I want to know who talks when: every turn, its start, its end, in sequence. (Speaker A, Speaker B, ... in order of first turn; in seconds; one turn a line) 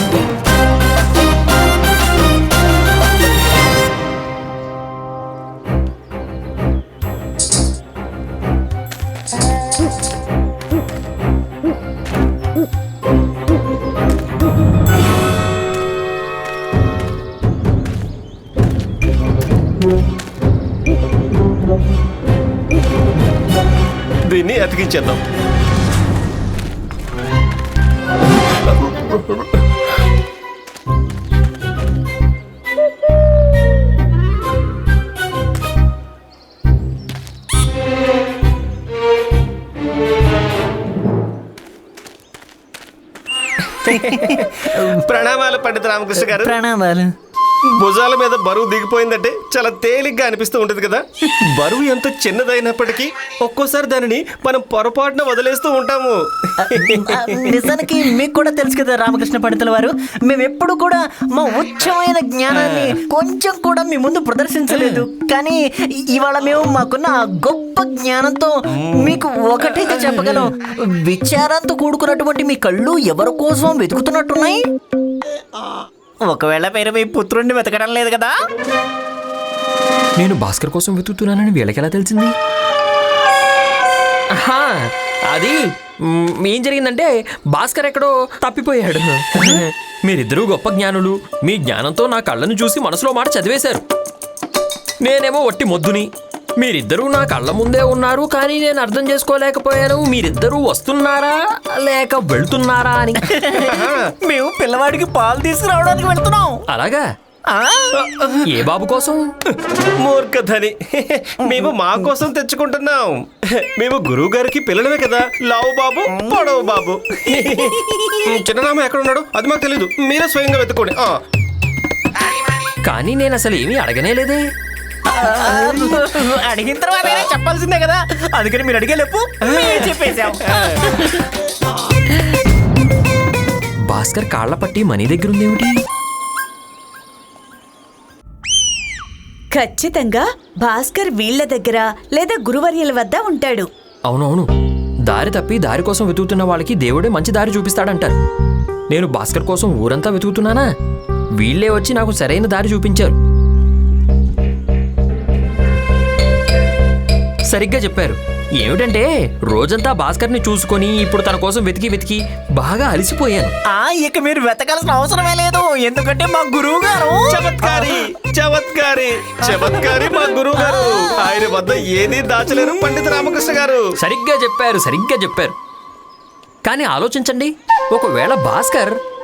Speaker A: 24.3-25.2
Speaker A: 44.8-46.6
Speaker B: 46.1-47.1
Speaker A: 47.8-56.2
Speaker B: 56.8-74.7
Speaker A: 56.8-58.0
Speaker A: 62.5-63.0
Speaker A: 64.7-65.0
Speaker B: 76.2-78.4
Speaker C: 80.2-82.3
Speaker C: 84.4-93.8
Speaker C: 95.0-103.2
Speaker B: 103.3-106.6
Speaker A: 103.7-104.1
Speaker C: 106.7-107.1
Speaker B: 107.5-108.0
Speaker A: 108.0-108.4
Speaker C: 108.4-109.2
Speaker A: 110.0-113.2
Speaker A: 113.8-117.8
Speaker A: 118.3-121.1
Speaker C: 122.8-124.4
Speaker B: 125.1-131.0
Speaker A: 129.4-130.3
Speaker C: 133.9-135.8
Speaker D: 139.5-143.7
Speaker C: 144.1-144.5
Speaker C: 145.1-148.2
Speaker C: 148.9-150.7
Speaker C: 151.4-153.2
Speaker C: 157.5-163.5
Speaker B: 163.7-167.8
Speaker A: 167.3-173.8
Speaker C: 174.0-175.5
Speaker C: 176.7-179.0